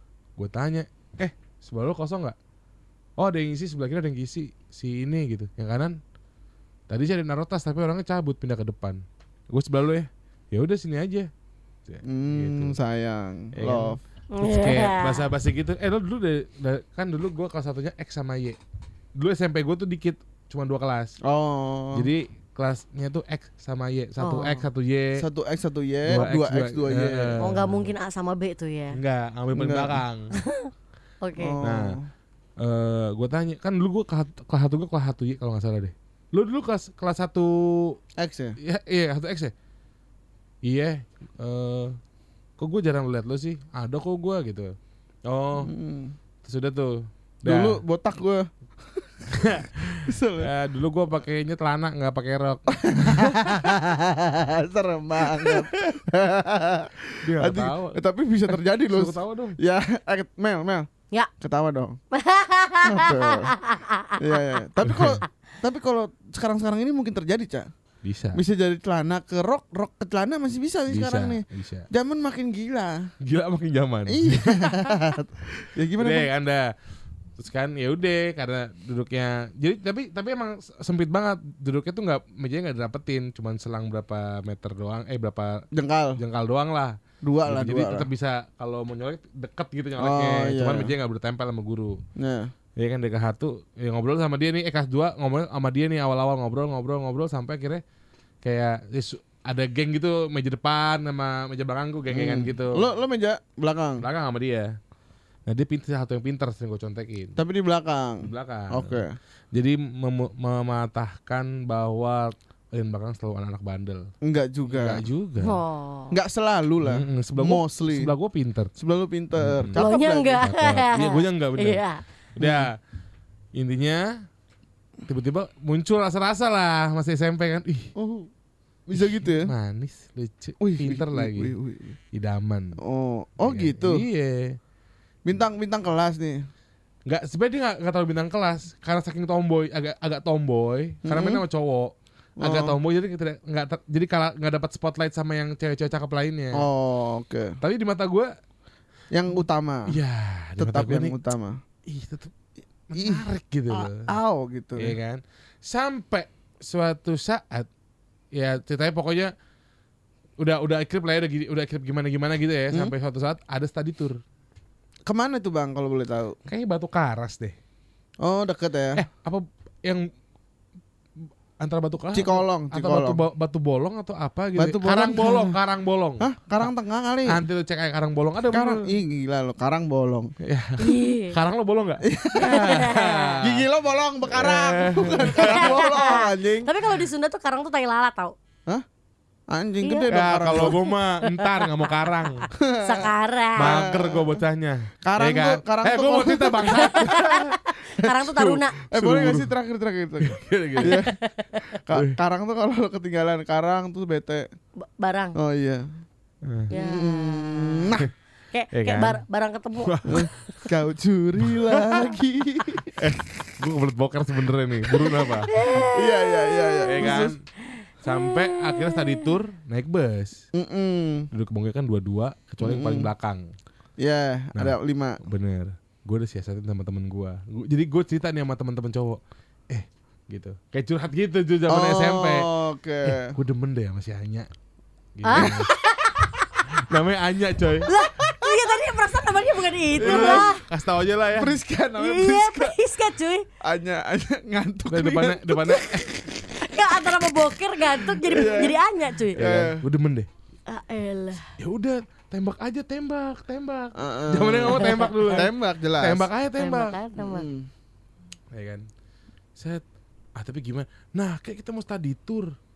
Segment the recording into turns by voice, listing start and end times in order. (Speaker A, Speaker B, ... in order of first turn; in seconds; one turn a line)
Speaker A: 0.4-2.4
Speaker A: 3.2-6.0
Speaker A: 6.9-11.3
Speaker A: 11.9-12.8
Speaker B: 12.0-14.0
Speaker A: 13.6-18.6
Speaker C: 14.3-15.3
Speaker A: 19.2-21.2
Speaker B: 21.2-22.1
Speaker A: 21.9-25.2
Speaker C: 24.2-24.6
Speaker B: 25.2-27.4
Speaker A: 26.1-27.9
Speaker C: 27.4-29.0
Speaker A: 28.9-30.3
Speaker B: 29.6-30.0
Speaker C: 30.4-30.7
Speaker C: 31.2-31.6
Speaker B: 31.4-32.1
Speaker A: 31.6-32.0
Speaker A: 32.6-38.0
Speaker B: 38.2-38.6
Speaker A: 38.6-39.5
Speaker A: 40.6-42.0
Speaker A: 42.6-44.8
Speaker A: 45.3-45.7
Speaker B: 45.6-46.1
Speaker A: 46.4-47.8
Speaker B: 47.5-49.1
Speaker A: 49.3-53.7
Speaker B: 50.0-50.5
Speaker B: 52.7-60.9
Speaker A: 55.4-56.0
Speaker A: 57.2-59.6
Speaker B: 61.4-62.0
Speaker C: 62.1-64.4
Speaker B: 62.8-63.5
Speaker B: 64.2-67.7
Speaker A: 64.8-65.2
Speaker A: 68.0-68.4
Speaker B: 68.3-73.1
Speaker A: 70.9-71.9
Speaker A: 73.2-74.9
Speaker B: 74.1-76.3
Speaker A: 76.0-76.7
Speaker A: 77.4-92.0
Speaker B: 85.7-86.2
Speaker B: 87.2-88.1
Speaker B: 90.0-90.9
Speaker B: 92.2-92.5
Speaker A: 92.8-97.8
Speaker A: 98.4-102.8
Speaker B: 102.1-104.0
Speaker A: 104.0-104.7
Speaker A: 105.5-107.4
Speaker B: 107.4-109.1
Speaker A: 108.2-114.1
Speaker B: 114.2-115.0
Speaker A: 114.7-115.6
Speaker C: 115.4-116.2
Speaker B: 116.1-118.1
Speaker A: 116.8-118.7
Speaker B: 118.8-120.5
Speaker A: 119.4-121.8
Speaker C: 119.8-122.0
Speaker A: 122.4-122.8
Speaker B: 122.4-122.7
Speaker A: 123.5-124.1
Speaker A: 125.1-127.9
Speaker B: 128.0-128.3
Speaker B: 128.9-129.5
Speaker A: 129.0-131.5
Speaker B: 130.6-132.0
Speaker A: 132.1-132.8
Speaker B: 132.8-134.0
Speaker A: 133.4-134.6
Speaker B: 135.3-136.4
Speaker A: 137.1-146.6
Speaker B: 141.1-141.4
Speaker B: 142.4-142.8
Speaker B: 146.5-147.6
Speaker A: 147.6-148.3
Speaker B: 149.1-149.9
Speaker A: 149.9-151.2
Speaker B: 150.6-151.6
Speaker A: 151.9-152.3
Speaker A: 152.9-154.1
Speaker B: 152.9-155.0
Speaker A: 154.8-157.7
Speaker A: 158.3-159.3
Speaker A: 160.4-164.2
Speaker B: 165.1-166.4
Speaker A: 166.5-167.6
Speaker B: 168.2-169.0
Speaker A: 168.9-170.1
Speaker A: 171.6-176.2
Speaker B: 172.1-173.2
Speaker B: 174.6-175.6
Speaker B: 176.2-177.4
Speaker A: 177.3-178.9
Speaker B: 178.5-180.3
Speaker A: 180.4-183.7
Speaker C: 180.8-181.4
Speaker B: 182.1-182.8
Speaker C: 182.4-183.4
Speaker B: 183.4-186.7
Speaker A: 184.3-185.8
Speaker C: 185.3-188.3
Speaker B: 189.5-190.8
Speaker C: 189.8-193.8
Speaker A: 190.1-192.5
Speaker B: 192.6-194.4
Speaker A: 193.6-197.6
Speaker B: 195.1-197.2
Speaker C: 196.7-198.8
Speaker A: 198.2-199.5
Speaker B: 198.9-201.1
Speaker A: 200.2-201.0
Speaker C: 200.8-201.8
Speaker B: 201.9-204.5
Speaker C: 204.8-205.4
Speaker B: 205.4-205.9
Speaker A: 206.4-206.7
Speaker B: 206.7-208.1
Speaker C: 206.7-208.0
Speaker C: 208.5-210.3
Speaker A: 208.7-209.2
Speaker A: 209.8-210.7
Speaker B: 210.1-213.0
Speaker A: 211.4-212.1
Speaker A: 213.0-215.9
Speaker C: 215.5-219.3
Speaker B: 215.9-217.3
Speaker A: 216.9-217.4
Speaker A: 218.0-220.4
Speaker B: 220.5-221.3
Speaker A: 221.3-223.5
Speaker B: 222.6-223.1
Speaker B: 224.0-225.2
Speaker A: 224.6-232.5
Speaker B: 231.7-233.3
Speaker A: 233.0-234.5
Speaker A: 235.2-235.7
Speaker C: 235.2-236.8
Speaker A: 236.8-237.9
Speaker C: 237.9-240.6
Speaker B: 240.0-240.5
Speaker A: 240.0-241.6
Speaker B: 241.4-242.8
Speaker C: 242.0-243.4
Speaker B: 243.6-245.8
Speaker A: 244.9-246.1
Speaker C: 246.6-249.4
Speaker B: 248.2-248.8
Speaker B: 249.3-249.8
Speaker A: 249.3-250.3
Speaker C: 250.7-251.5
Speaker A: 251.6-256.9
Speaker B: 253.9-256.3
Speaker C: 254.7-255.4
Speaker C: 256.6-257.5
Speaker B: 257.2-257.7
Speaker A: 258.5-258.9
Speaker A: 259.6-259.8
Speaker A: 260.4-262.6